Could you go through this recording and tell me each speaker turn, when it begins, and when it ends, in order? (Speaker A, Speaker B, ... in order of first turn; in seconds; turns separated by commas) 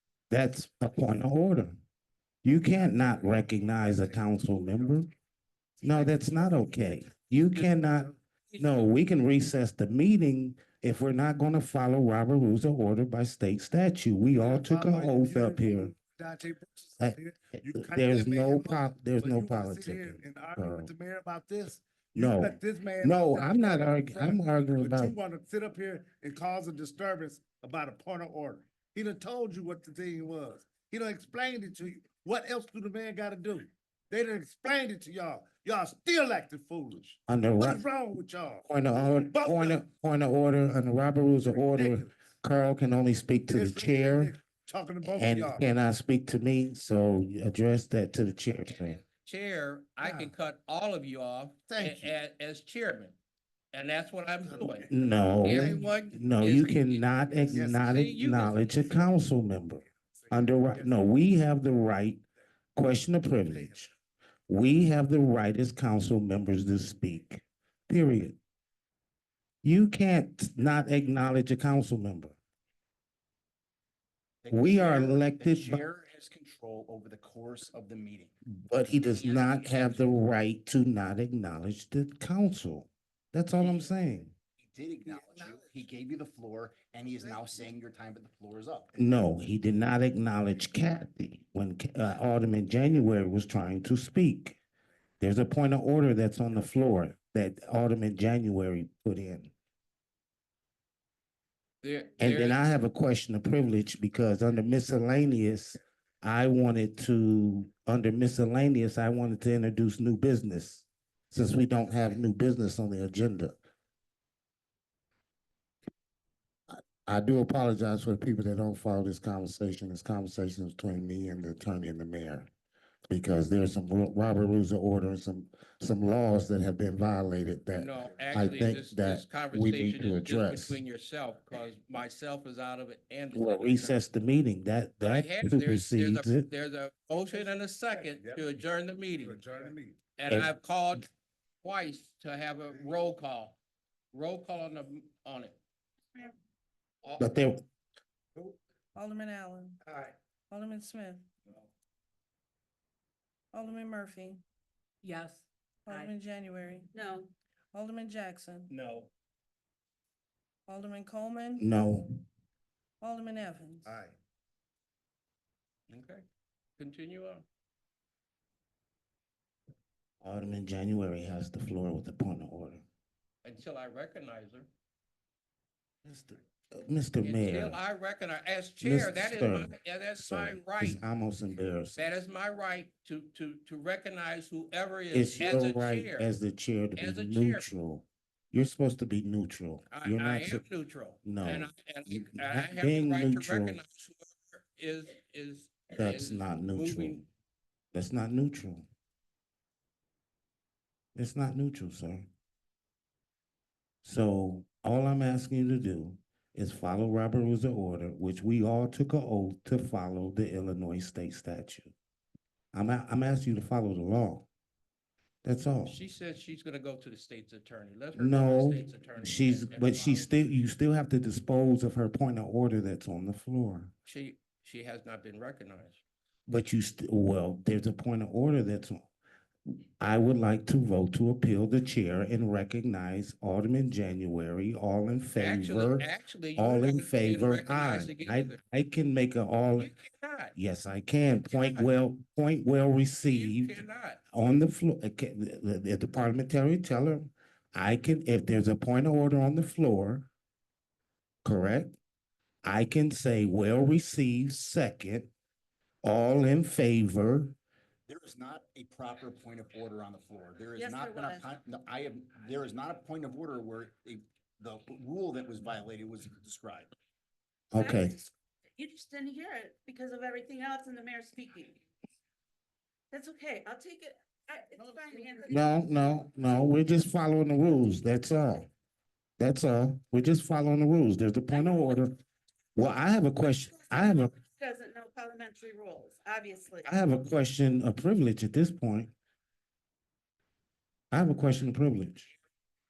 Speaker A: 0.3-1.8, Speaker A: 2.4-5.1, Speaker A: 5.8-15.9, Speaker B: 8.5-8.9, Speaker C: 14.4-39.8, Speaker A: 17.0-20.9, Speaker A: 22.1-25.1, Speaker A: 37.3-37.9, Speaker A: 38.7-44.3, Speaker C: 41.5-42.1, Speaker C: 43.5-45.6, Speaker A: 45.0-49.0, Speaker B: 48.7-53.2, Speaker D: 50.0-50.3, Speaker D: 51.7-52.1, Speaker B: 53.7-54.9, Speaker A: 54.8-62.2, Speaker B: 55.4-58.9, Speaker D: 55.5-55.8, Speaker A: 62.8-63.9, Speaker A: 64.5-68.4, Speaker A: 69.6-72.4, Speaker D: 74.4-78.3, Speaker A: 74.5-75.8, Speaker A: 78.5-84.3, Speaker D: 79.2-80.0, Speaker D: 84.6-89.0, Speaker A: 89.0-94.6, Speaker A: 95.2-99.5, Speaker B: 101.8-102.6, Speaker A: 102.2-113.6, Speaker A: 116.7-122.5, Speaker A: 123.1-130.8, Speaker B: 127.7-134.0, Speaker A: 133.3-136.5, Speaker B: 135.0-139.5, Speaker C: 139.3-140.0, Speaker B: 140.2-141.1, Speaker B: 141.6-143.6, Speaker B: 144.1-145.6, Speaker B: 147.0-147.3, Speaker A: 147.2-147.6, Speaker E: 148.9-149.8, Speaker E: 150.5-151.3, Speaker E: 153.5-154.4, Speaker F: 155.0-156.1, Speaker E: 155.9-156.9, Speaker F: 156.9-157.3, Speaker E: 157.7-158.7, Speaker B: 158.7-159.1, Speaker E: 160.7-161.7, Speaker A: 161.6-162.2, Speaker E: 163.0-163.9, Speaker B: 165.9-166.2, Speaker B: 166.8-167.5, Speaker A: 170.2-172.8, Speaker B: 173.4-174.7, Speaker A: 176.0-177.8, Speaker B: 177.2-181.0, Speaker A: 178.8-182.0, Speaker B: 181.9-186.3, Speaker A: 185.1-190.6, Speaker B: 186.9-187.7, Speaker B: 189.9-197.2, Speaker A: 191.2-193.8, Speaker A: 195.9-197.2, Speaker A: 197.9-198.9, Speaker A: 201.2-202.3, Speaker A: 204.0-211.9, Speaker A: 212.7-214.5, Speaker A: 215.4-216.0, Speaker B: 215.8-220.5, Speaker A: 218.2-223.9, Speaker B: 224.1-226.0, Speaker A: 226.5-229.1, Speaker A: 229.7-239.9, Speaker B: 235.4-238.6, Speaker B: 239.8-240.6, Speaker A: 240.6-250.3, Speaker B: 241.4-241.9, Speaker B: 243.3-244.2, Speaker A: 251.4-252.0, Speaker A: 252.6-255.3, Speaker A: 256.0-257.6, Speaker D: 258.1-266.9, Speaker F: 260.8-261.5, Speaker A: 267.7-268.2, Speaker F: 267.8-271.8, Speaker F: 273.1-275.6, Speaker A: 275.5-278.7, Speaker A: 279.4-282.1, Speaker F: 281.5-282.0, Speaker A: 282.8-284.3, Speaker F: 283.8-286.9, Speaker A: 286.8-289.1, Speaker A: 291.1-292.3